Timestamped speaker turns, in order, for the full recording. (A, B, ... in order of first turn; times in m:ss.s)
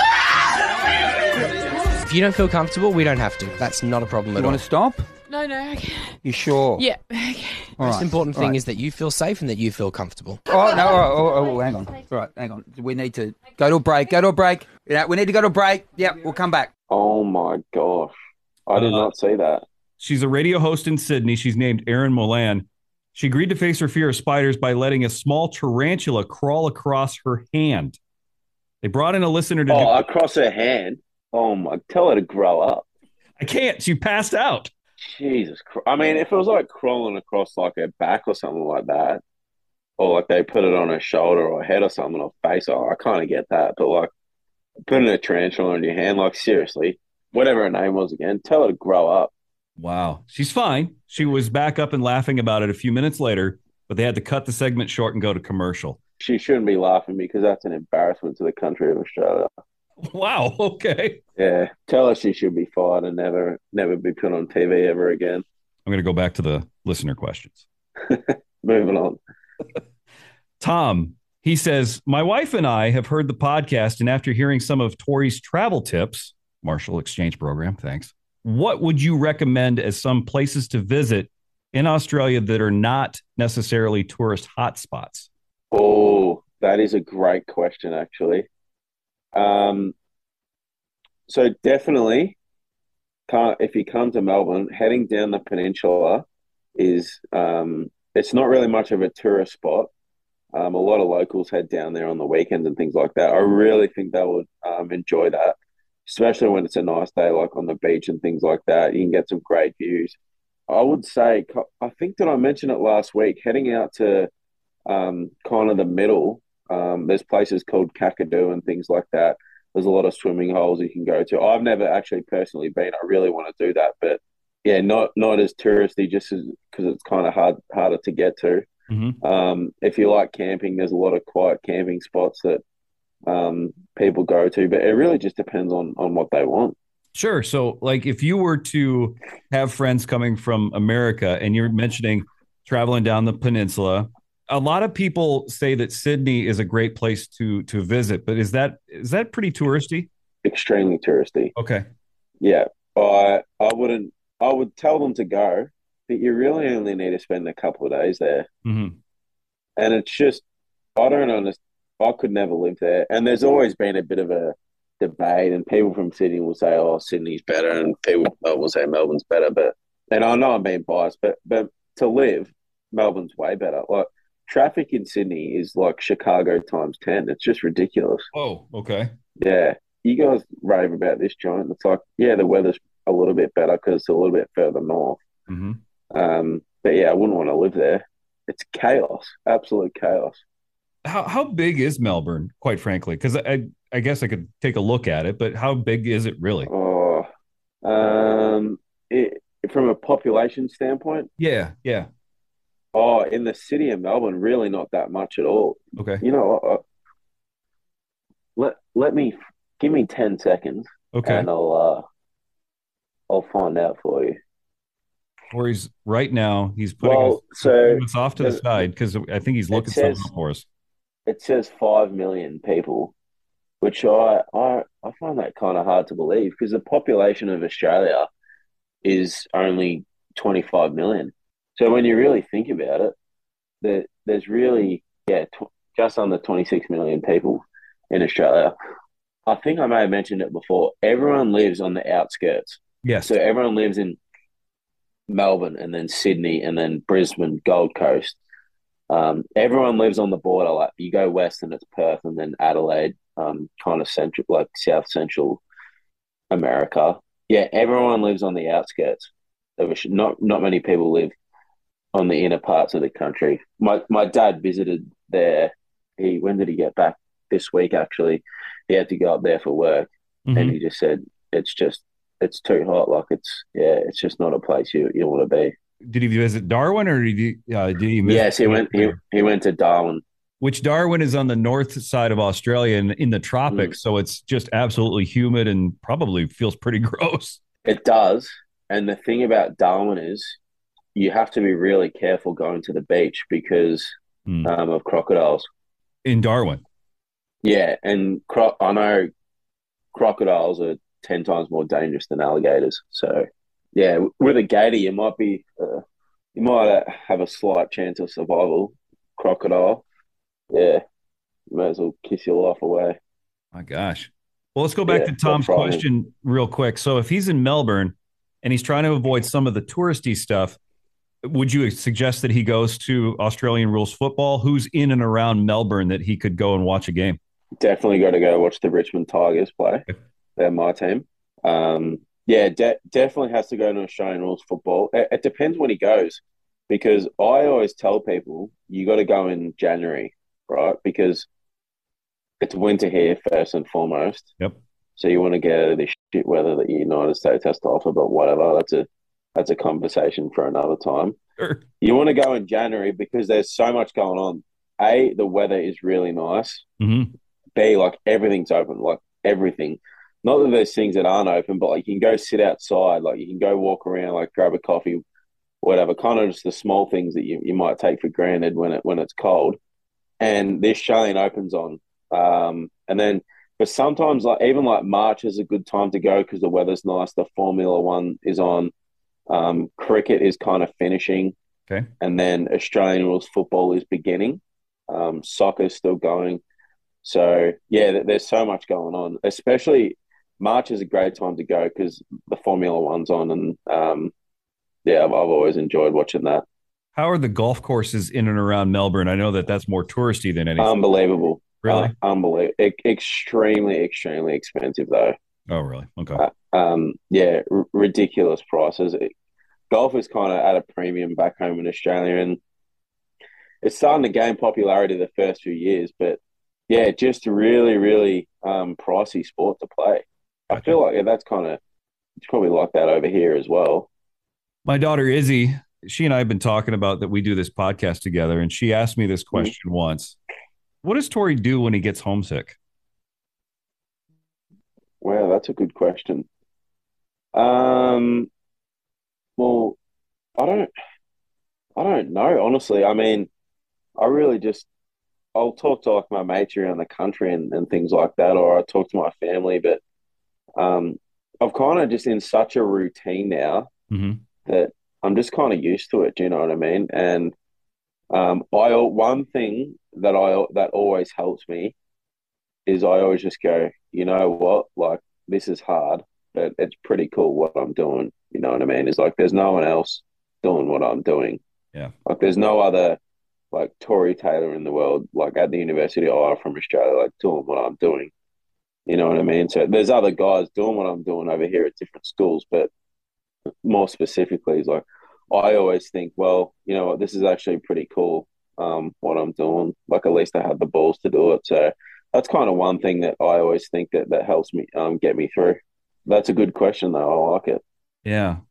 0:02.0-0:04.6 A
0:04.3-0:05.1 B
0:05.2-0:06.2 C
0:06.2-0:06.8 B
0:06.7-0:07.8 C
0:07.8-0:08.6 B
0:07.8-0:10.4 A
0:10.5-0:16.7 B
0:16.9-0:18.1 D
0:18.7-0:19.6 D
0:18.7-0:19.1 E
0:20.0-0:28.0 E
0:28.8-0:29.9 E
0:29.7-0:32.8 D
0:33.4-0:34.7 E
0:35.0-0:39.2 D
0:40.0-0:44.1 D
0:44.9-0:49.3 D
0:49.8-0:56.0 E
0:56.2-0:59.5 D
1:00.0-1:01.2 E
1:01.4-1:05.4 D
1:05.8-1:07.6 E
1:08.0-1:09.2 D
1:10.6-1:25.3 E
1:25.7-1:28.5 D
1:29.3-1:29.9 D
1:31.3-1:32.4 D
1:33.3-1:36.2 D
1:36.8-1:39.9 D
1:40.5-1:50.2 D
1:50.7-1:54.3 D
1:54.8-2:08.7 D
2:08.9-2:09.2 E
2:09.2-2:12.6 D
2:13.2-2:16.7 D
2:17.1-2:30.1 E
2:30.4-2:31.5 D
2:31.6-2:31.9 E
2:32.4-2:38.5 D
2:38.6-2:39.0 E
2:39.8-2:40.4 D
2:41.0-2:58.3 D
2:58.3-2:59.1 E
2:59.4-3:05.2 D
3:05.5-3:05.8 E
3:06.1-3:10.4 D
3:11.0-3:16.7 E
3:16.7-3:17.3 D
3:17.8-3:21.3 D
3:21.4-3:22.1 E
3:22.9-3:26.8 D
3:26.0-3:26.2 E
3:28.6-3:32.0 D
3:31.1-3:31.5 E
3:33.3-3:34.4 D
3:35.5-3:40.6 E
3:37.0-3:38.6 D
3:39.7-3:40.3 D
3:41.3-3:43.1 D
3:43.8-3:48.3 D
3:49.0-3:53.1 D
3:53.8-3:58.7 D
3:59.5-4:04.2 D
4:03.0-4:03.4 E
4:05.3-4:08.4 D
4:09.1-4:15.6 D
4:16.5-4:21.3 D
4:22.1-4:35.7 D
4:30.5-4:30.8 E
4:36.0-4:39.2 E
4:38.2-4:40.2 D
4:40.6-4:47.6 E
4:43.7-4:43.9 D
4:47.8-4:50.6 D
4:51.1-4:54.1 D
4:54.6-4:55.6 D
4:56.2-4:56.8 E
4:57.6-4:59.3 D
5:00.1-5:06.0 D
5:06.5-5:10.0 D
5:10.7-5:11.0 D
5:11.7-5:13.2 D
5:13.7-5:20.8 E
5:15.1-5:16.0 D
5:21.4-5:27.4 E
5:27.8-5:41.5 D
5:42.6-5:44.5 D
5:45.2-5:51.4 D
5:51.6-5:51.8 E
5:52.0-5:56.8 D
5:57.0-5:57.3 E
5:57.8-6:05.2 D
6:05.8-6:09.8 D
6:10.4-6:18.9 D
6:19.5-6:21.5 D
6:22.2-6:26.6 D
6:27.2-6:34.3 D
6:35.0-6:36.6 D
6:37.1-6:40.9 E
6:40.8-6:45.3 D
6:41.8-6:42.1 E
6:45.7-6:46.4 E
6:46.4-6:49.3 D
6:49.9-6:52.6 D
6:53.8-7:01.8 D
7:02.4-7:04.1 D
7:04.8-7:10.4 E
7:11.0-7:12.8 E
7:15.2-7:16.4 D
7:17.5-7:18.5 D
7:19.6-7:20.0 D
7:20.6-7:20.9 D
7:22.0-7:23.5 D
7:24.2-7:24.9 D
7:25.5-7:30.0 D
7:30.8-7:33.9 D
7:34.1-7:34.4 E
7:34.6-7:37.5 D
7:38.3-7:41.9 D
7:42.8-7:51.6 D
7:52.2-7:53.2 D
7:53.7-7:58.3 D
7:59.1-8:02.9 D
8:03.8-8:17.8 D
8:18.2-8:18.6 E